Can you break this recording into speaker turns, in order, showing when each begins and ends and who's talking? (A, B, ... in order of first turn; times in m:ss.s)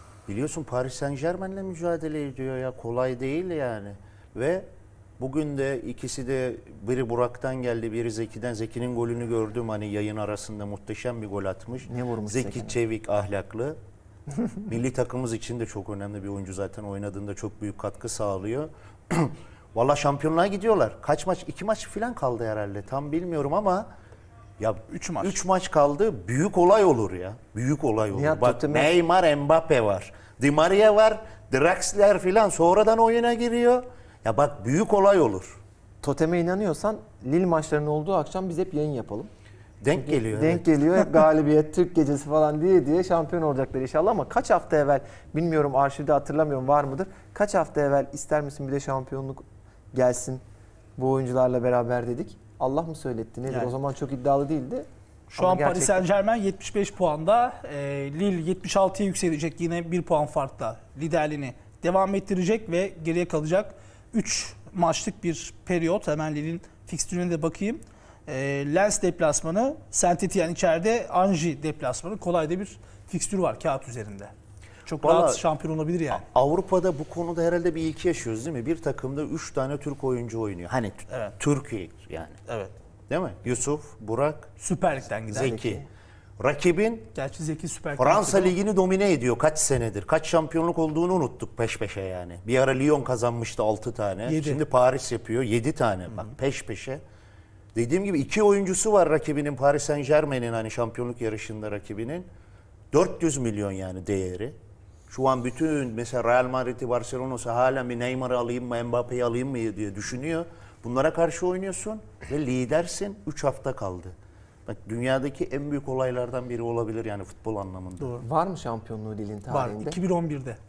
0:00.3-0:04.7 A
0:05.2-0:13.8 A
0:11.9-0:12.8 B
0:14.6-0:23.9 A
0:24.6-0:35.6 A
0:24.9-0:25.4 C
0:28.1-0:28.9 B
0:36.0-0:39.3 B
0:39.8-0:40.7 A
0:39.9-0:50.4 B
0:51.0-0:56.0 B
0:53.5-0:53.8 C
0:55.3-1:14.3 C
1:14.9-1:16.3 C
1:15.0-1:15.4 A
1:16.1-1:22.4 A
1:21.1-1:21.3 C
1:22.5-1:22.7 C
1:23.1-1:24.5 A
1:24.6-1:25.6 C
1:25.3-1:25.8 A
1:25.4-1:25.9 B
1:26.4-1:27.1 A
1:27.1-1:28.6 C
1:28.0-1:37.0 A
1:34.3-1:34.6 C
1:37.8-1:42.3 A
1:42.9-1:44.6 A
1:45.1-1:54.2 A
1:54.7-1:58.2 A
1:58.0-1:58.2 C
1:58.2-2:00.0 B
1:59.5-2:00.6 C